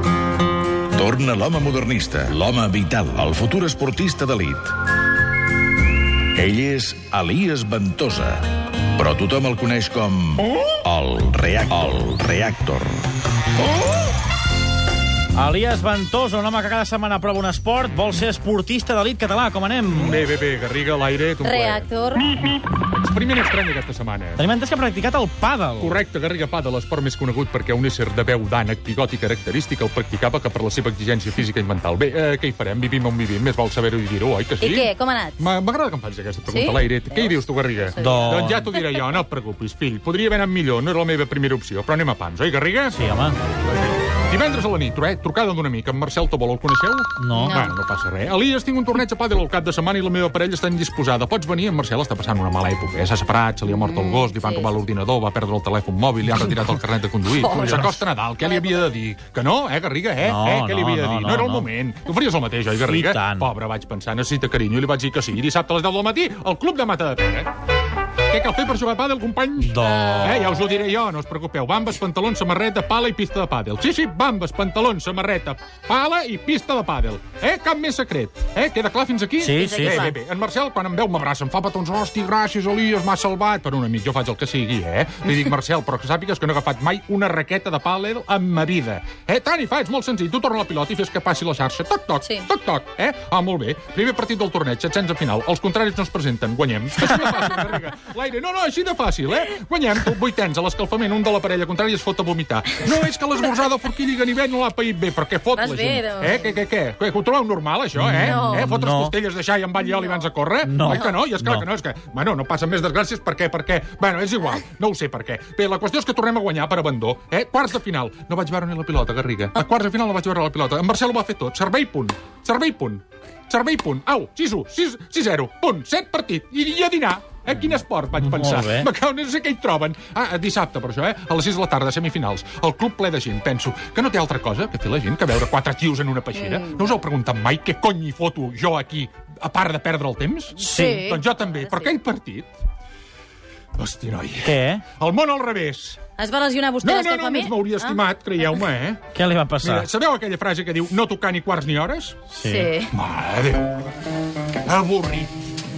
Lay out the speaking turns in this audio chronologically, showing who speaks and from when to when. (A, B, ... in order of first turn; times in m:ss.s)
0:00.9-0:04.8 A
0:06.3-0:13.1 A
0:15.3-0:20.2 B
0:19.9-0:21.9 C
0:21.4-0:22.4 D
0:22.4-0:24.4 C
0:24.4-0:26.0 B
0:25.8-0:43.0 C
0:34.6-0:35.4 D
0:36.5-0:37.4 D
0:37.9-0:38.8 D
0:38.0-0:38.6 B
0:42.9-0:43.4 B
0:44.2-1:07.5 C
0:47.2-0:47.7 B
0:47.4-0:47.7 D
0:53.9-0:54.7 D
0:57.4-0:57.9 D
1:00.2-1:01.7 B
1:02.8-1:03.5 B
1:08.3-2:22.6 C
1:09.6-1:10.6 B
1:19.4-1:20.1 B
1:19.6-1:20.1 D
1:45.5-1:46.4 D
1:48.0-1:49.2 B
1:48.2-1:48.7 D
1:50.6-1:51.6 B
1:50.8-1:51.1 D
2:08.2-2:08.9 B
2:16.4-2:16.8 D
2:20.6-2:21.9 D
2:20.6-2:21.1 B
2:23.8-2:26.1 C
2:24.4-2:24.8 B
2:26.2-2:28.0 D
2:26.8-2:29.0 C
2:29.1-2:29.9 B
2:29.6-2:32.4 C
2:32.3-2:32.7 B
2:32.4-2:32.9 D
2:32.9-2:33.8 C
2:34.6-2:35.3 C